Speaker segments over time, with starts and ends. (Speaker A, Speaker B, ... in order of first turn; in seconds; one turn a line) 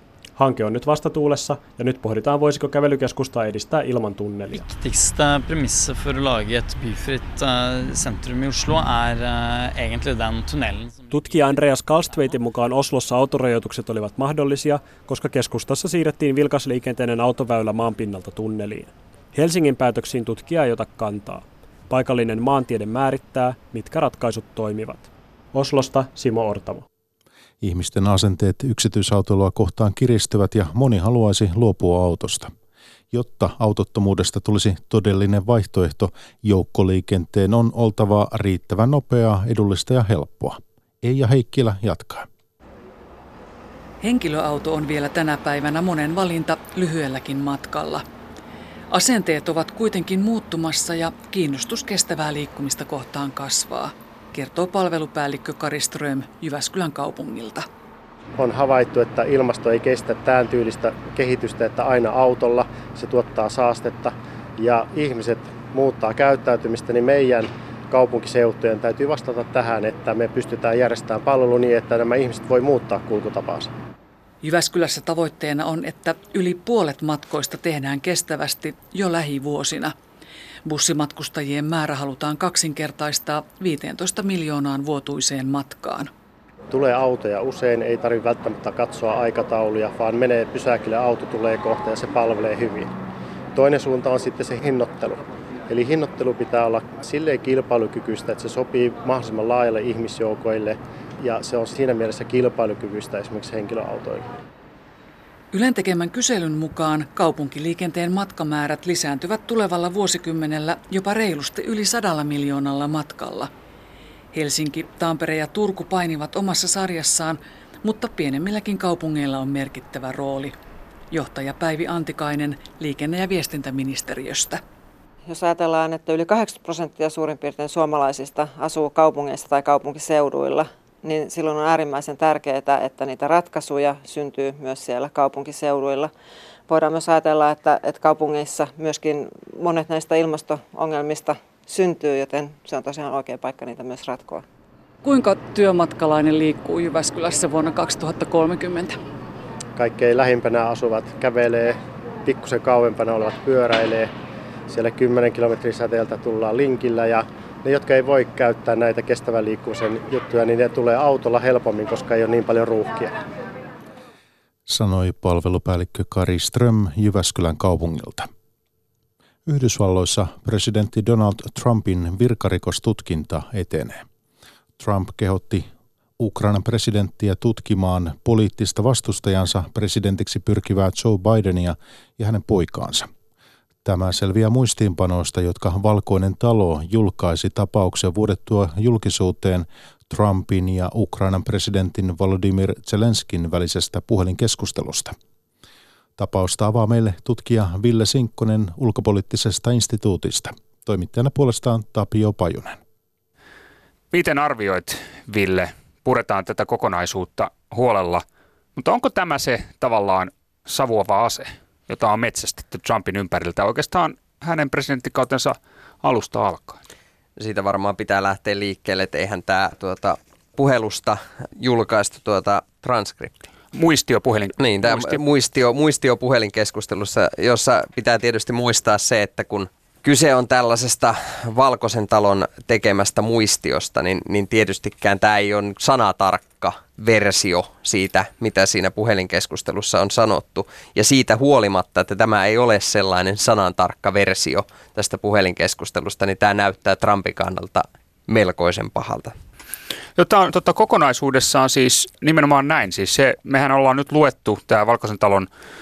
Speaker A: 0.4-4.7
Speaker B: 4.5-12.4
Speaker A: 11.1-26.9
Speaker C: 27.6-32.5
Speaker C: 33.1-42.3
Speaker D: 44.0-48.0
Speaker D: 48.9-57.7
Speaker E: 58.4-73.7
Speaker D: 74.4-79.9
Speaker D: 80.7-86.1
Speaker E: 86.7-92.9
Speaker E: 93.5-104.3
Speaker D: 105.5-113.5
Speaker D: 114.3-120.5
Speaker D: 121.1-124.6
Speaker F: 125.3-136.1
Speaker F: 136.7-144.4
Speaker D: 145.0-149.0
Speaker E: 149.8-154.1
Speaker E: 154.7-163.2
Speaker C: 164.7-168.3
Speaker C: 169.5-174.0
Speaker C: 174.8-175.7
Speaker C: 176.2-183.1
Speaker C: 183.8-195.1
Speaker C: 196.2-202.8
Speaker G: 204.1-208.2
Speaker G: 208.8-216.8
Speaker H: 217.4-223.5
Speaker G: 223.7-225.2
Speaker H: 224.6-249.3
Speaker G: 250.2-255.5